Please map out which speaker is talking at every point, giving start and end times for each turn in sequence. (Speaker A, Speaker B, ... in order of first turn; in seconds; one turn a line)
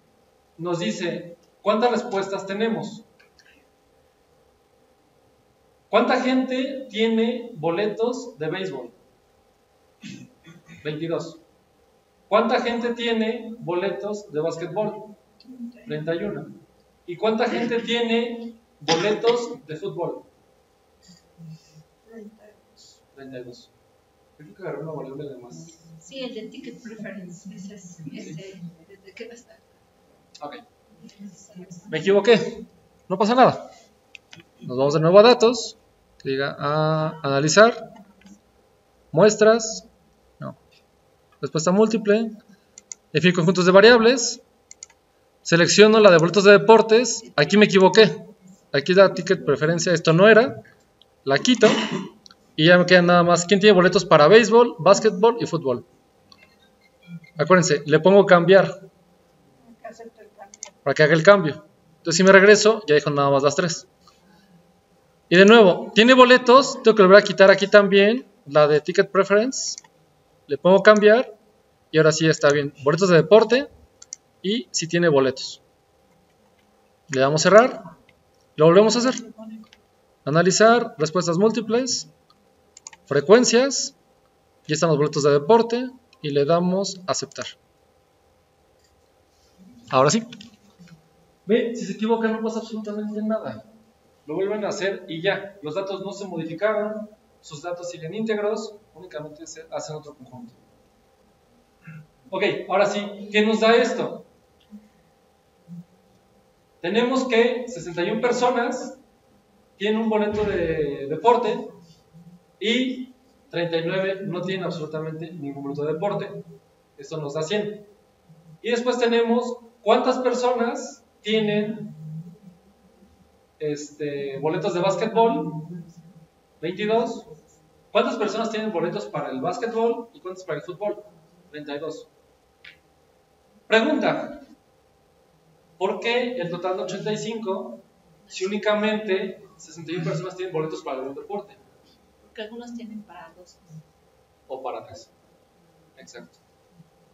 Speaker A: 0.6-3.0
Speaker A: 5.9-9.0
Speaker A: 10.8-11.4
Speaker A: 12.3-15.2
Speaker A: 15.8-20.3
Speaker B: 22.1-22.9
Speaker A: 23.1-23.7
Speaker A: 24.4-25.8
Speaker C: 26.0-29.7
Speaker C: 31.2-31.8
Speaker A: 31.9-33.7
Speaker A: 34.6-37.9
Speaker A: 39.1-39.9
Speaker A: 41.4-42.4
Speaker A: 43.1-44.4
Speaker A: 45.4-50.6
Speaker A: 51.2-52.0
Speaker A: 52.5-55.9
Speaker A: 57.4-58.9
Speaker B: 59.6-60.8
Speaker A: 60.8-63.9
Speaker A: 65.3-69.8
Speaker A: 70.5-71.3
Speaker A: 71.9-73.7
Speaker A: 74.4-75.6
Speaker A: 77.1-77.8
Speaker A: 78.5-79.2
Speaker A: 80.2-82.1
Speaker A: 83.1-83.9
Speaker A: 84.7-87.5
Speaker A: 89.9-90.3
Speaker A: 91.5-93.6
Speaker A: 94.2-100.6
Speaker A: 102.3-104.2
Speaker A: 106.8-109.0
Speaker A: 109.8-111.7
Speaker A: 112.6-117.9
Speaker A: 118.6-121.9
Speaker A: 123.6-125.7
Speaker A: 126.6-127.3
Speaker A: 127.9-132.1
Speaker A: 133.7-134.4
Speaker A: 135.8-141.6
Speaker C: 142.2-143.8
Speaker A: 144.5-145.1
Speaker A: 146.0-146.4